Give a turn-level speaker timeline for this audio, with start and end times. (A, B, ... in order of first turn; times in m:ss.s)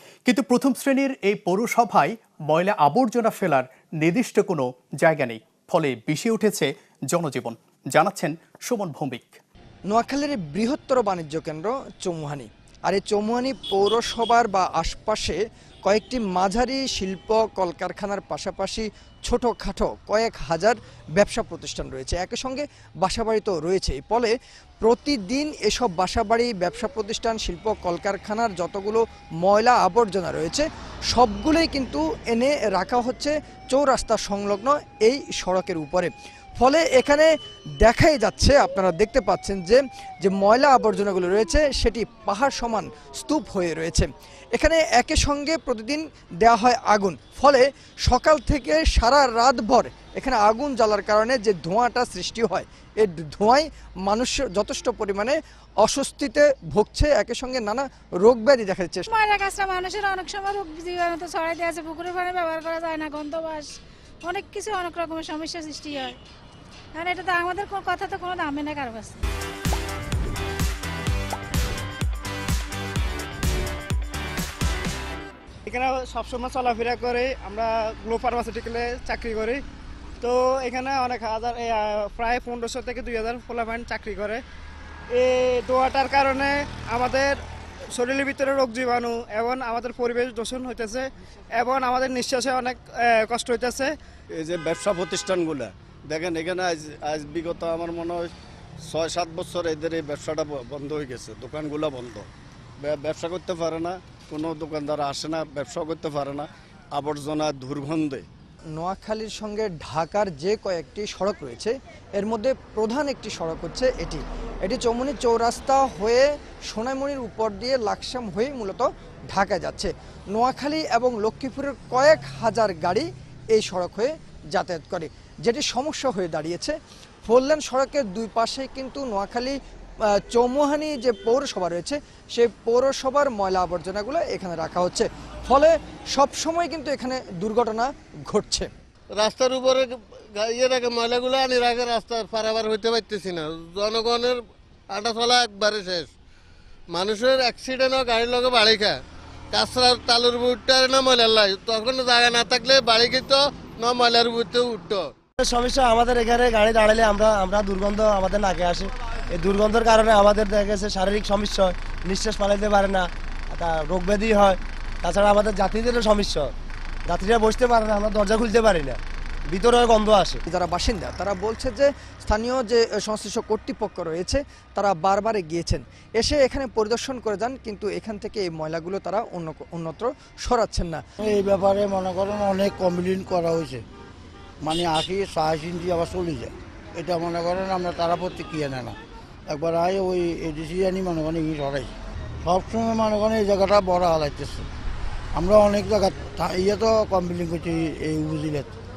0:00.2-0:09.4 A
0:09.9-0:59.1 B
0:59.1-1:03.7 C
1:04.2-1:06.1 C
1:06.9-1:09.2 C
1:15.6-1:19.6 D
1:20.2-1:24.4 D
1:25.1-1:34.0 D
1:34.3-1:38.3 E
1:38.8-1:42.3 E
1:42.8-1:48.3 E
1:48.7-2:09.6 B
2:10.1-2:18.7 B
2:19.2-2:24.4 F
2:24.9-2:26.1 F
2:26.9-2:29.0 F
2:29.5-2:35.1 F
2:35.4-2:50.4 G
2:50.4-3:01.0 B
3:01.2-3:03.8 H
3:04.6-3:14.7 H
3:15.3-3:18.7 H